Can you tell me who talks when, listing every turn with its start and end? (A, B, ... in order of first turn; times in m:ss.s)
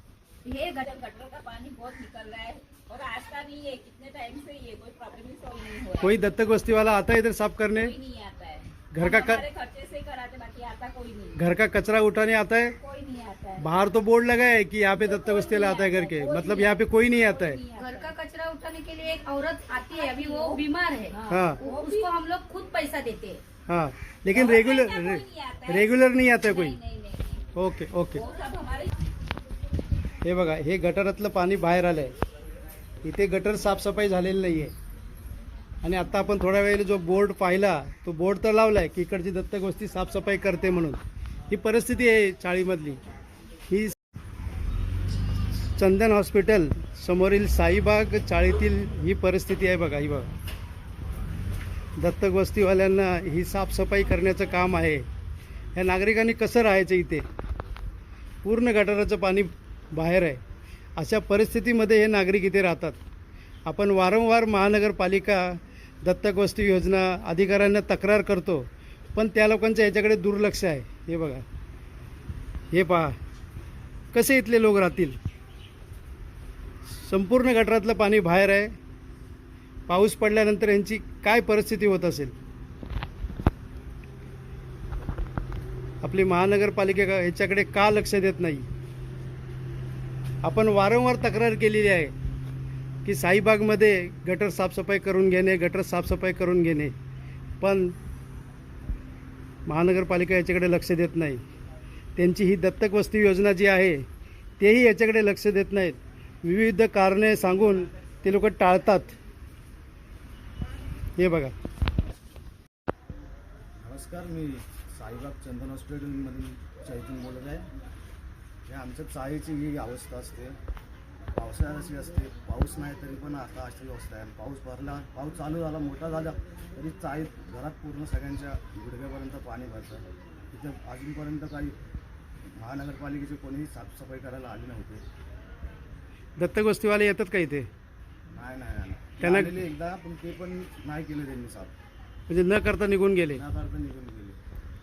0:00.4-0:06.2 A
0:06.0-0:07.9 B
0:07.7-0:11.4 A
0:08.9-0:09.4 B
0:11.3-0:12.7 B
0:12.8-0:13.7 A
0:13.6-0:17.6 B
0:15.0-0:18.1 A
0:17.8-0:23.4 C
0:19.9-0:22.1 A
0:21.3-0:21.6 B
0:23.7-0:26.8 B
0:24.3-0:27.5 A
0:27.5-0:28.2 B
0:28.1-0:28.9 A
0:30.2-0:32.1 B
0:33.0-0:34.7 B
0:35.8-0:43.0 B
0:43.7-0:44.0 B
0:45.8-0:50.3 B
0:52.0-0:55.0 B
0:55.8-0:57.2 B
0:58.4-1:00.4 B
1:01.0-1:03.0 B
1:03.6-1:11.4 B
1:12.7-1:13.2 B
1:14.1-1:15.2 B
1:16.9-1:18.7 B
1:19.9-1:22.3 B
1:26.0-1:28.6 B
1:30.4-1:32.1 B
1:33.0-1:36.9 B
1:37.6-1:37.9 B
1:39.6-1:41.4 B
1:42.2-1:44.0 B
1:44.6-1:49.2 B
1:51.2-1:51.5 B
1:53.8-1:57.7 D
1:58.7-2:00.6 D
2:01.3-2:11.8 D
2:12.5-2:15.0 D
2:16.4-2:17.7 B
2:18.3-2:21.7 D
2:19.2-2:19.5 B
2:22.3-2:23.4 B
2:23.3-2:24.4 D